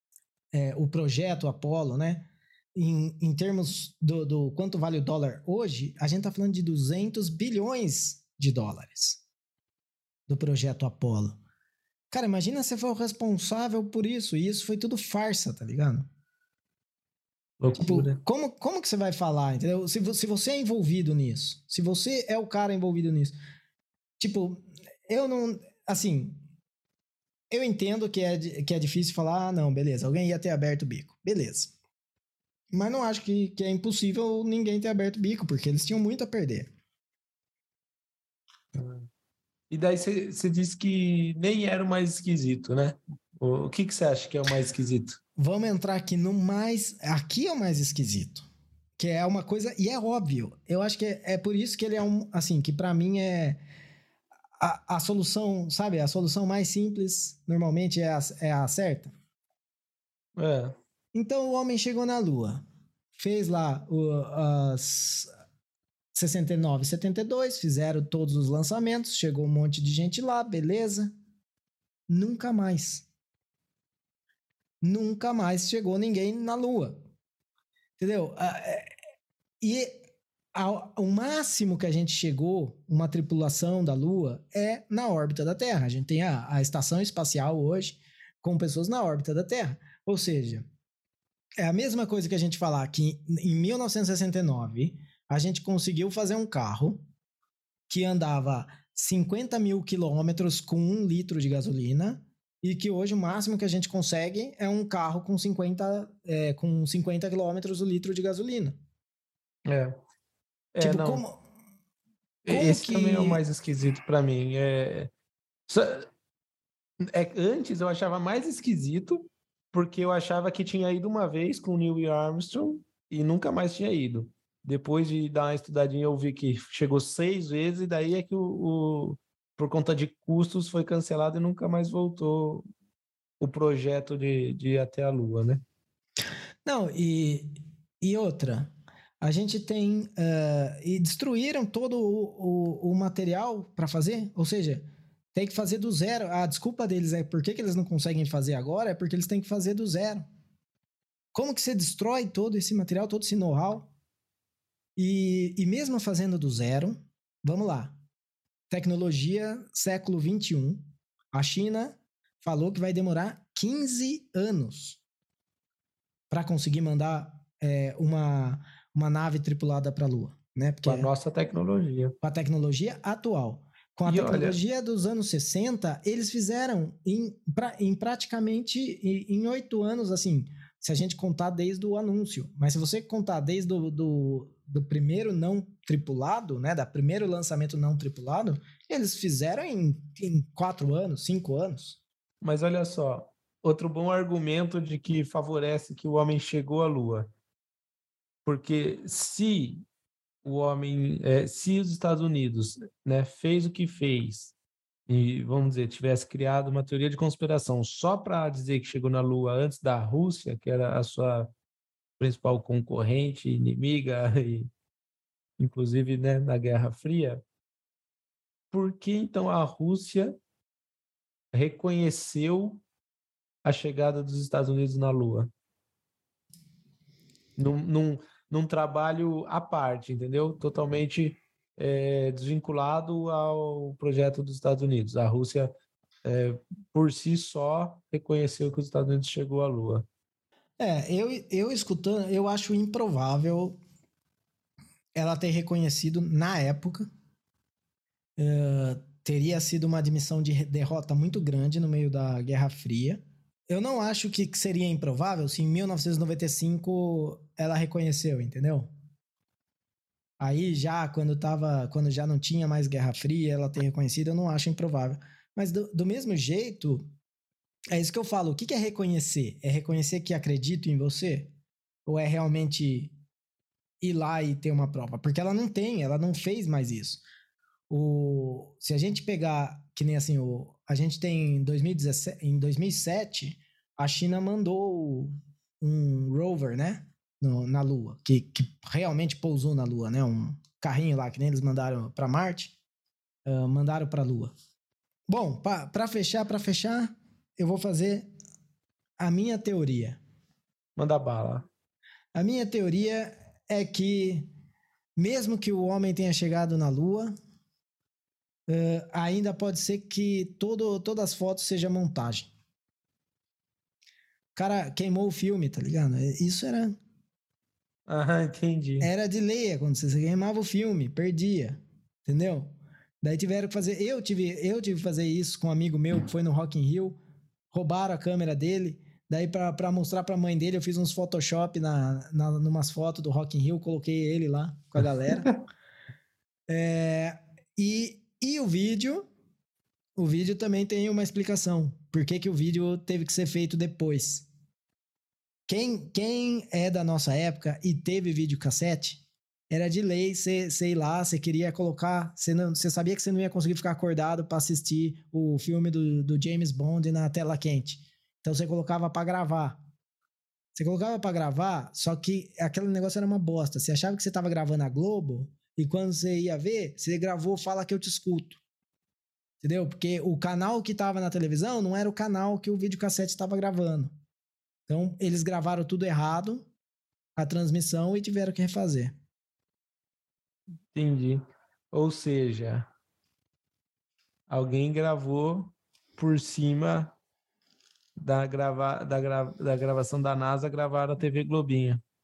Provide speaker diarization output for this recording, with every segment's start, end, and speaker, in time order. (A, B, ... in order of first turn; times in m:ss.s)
0:00.5-0:09.2 A
0:10.3-0:11.4 A
0:12.1-0:16.0 A
0:17.6-0:18.2 B
0:17.8-0:23.4 A
0:24.2-0:26.4 A
0:27.5-0:31.7 A
0:32.7-0:36.7 A
0:38.7-0:39.1 B
0:39.7-0:45.2 B
0:45.4-0:48.4 A
0:49.0-0:53.6 A
0:54.6-0:59.1 A
1:00.4-1:00.8 B
1:01.1-1:02.6 A
1:03.2-1:05.3 A
1:06.1-1:11.1 A
1:12.1-1:13.0 A
1:14.8-1:17.0 A
1:18.0-1:18.9 A
1:19.6-1:20.0 A
1:20.5-1:30.7 A
1:31.6-1:37.0 A
1:37.9-1:48.8 A
1:49.7-1:50.0 B
1:50.7-1:51.2 B
1:50.8-1:51.4 A
1:52.4-1:55.1 B
1:52.5-1:53.4 A
1:55.7-1:56.1 B
1:57.0-2:12.6 B
2:13.4-2:15.6 B
2:16.6-2:30.3 A
2:31.3-2:33.9 A
2:35.0-2:38.0 A
2:38.7-2:45.0 A
2:46.3-2:51.1 A
2:50.8-2:52.2 B
2:52.2-3:12.0 A
2:54.0-2:54.6 B
3:12.4-3:17.3 B
3:18.4-3:19.8 B
3:20.4-3:24.5 B
3:25.1-3:31.5 B
3:32.2-3:34.7 B
3:35.6-3:37.4 B
3:38.7-3:40.3 B
3:41.5-3:42.8 B
3:43.6-3:45.5 B
3:47.6-3:55.7 B
3:56.2-4:00.1 B
4:00.8-4:03.8 A
4:05.1-4:07.1 A
4:08.4-4:18.9 A
4:20.4-4:27.1 A
4:27.9-4:31.5 A
4:32.0-4:33.1 A
4:34.0-4:37.2 A
4:37.9-4:52.7 A
4:53.4-4:54.5 A
4:55.3-4:58.3 A
4:59.2-5:00.2 A
5:01.0-5:01.7 B
5:02.3-5:04.5 A
5:05.2-5:07.3 A
5:08.7-5:12.5 A
5:14.5-5:17.0 A
5:18.1-5:19.1 B
5:19.0-5:27.2 A
5:27.7-5:35.5 A
5:36.7-5:39.2 A
5:40.2-5:44.5 A
5:45.7-5:59.8 A
6:00.7-6:08.6 A
6:09.6-6:14.1 A
6:14.9-6:16.7 A
6:17.4-6:19.1 A
6:20.9-6:22.9 B
6:24.5-6:27.1 B
6:28.2-6:32.0 B